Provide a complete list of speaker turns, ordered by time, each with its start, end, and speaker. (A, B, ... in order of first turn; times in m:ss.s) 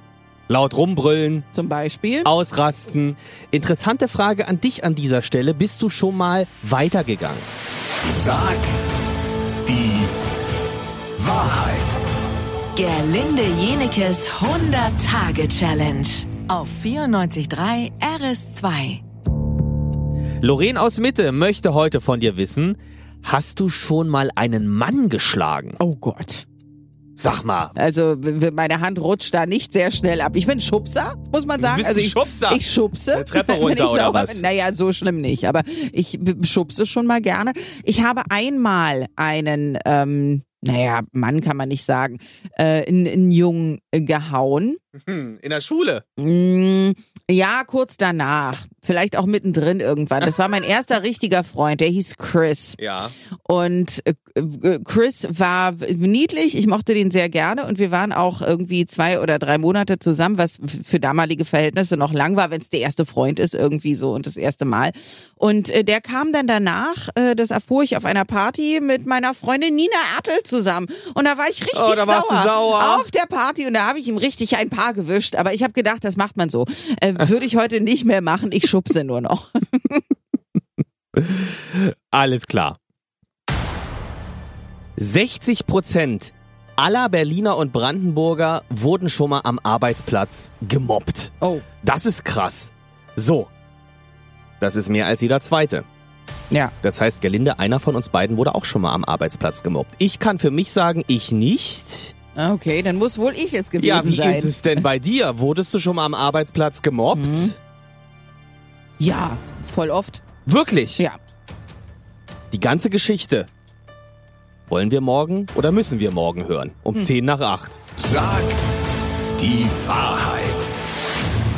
0:00.5-0:01.4 A
0:01.5-0:02.3 B
0:02.2-0:07.4 A
0:08.1-0:08.7 C
0:09.7-0:10.1 C
0:11.2-0:11.9 C
0:12.7-0:19.0 D
0:20.4-0:25.8 A
0:25.8-0:26.4 B
0:27.2-0:27.7 A
0:27.8-0:44.8 B
0:31.6-0:34.4 A
0:45.0-0:46.0 A
0:46.2-0:52.8 B
0:52.8-0:53.1 A
0:53.4-1:20.0 B
1:11.7-1:13.0 A
1:21.2-1:22.8 A
1:25.0-1:33.5 A
1:34.6-1:35.8 A
1:36.8-1:42.1 A
1:42.4-1:44.8 B
1:43.8-1:47.6 A
1:47.1-1:47.5 B
1:49.0-1:50.2 B
1:50.4-1:51.0 A
1:52.5-1:53.5 A
1:54.7-1:57.8 A
1:58.0-1:58.5 C
1:59.4-2:00.6 C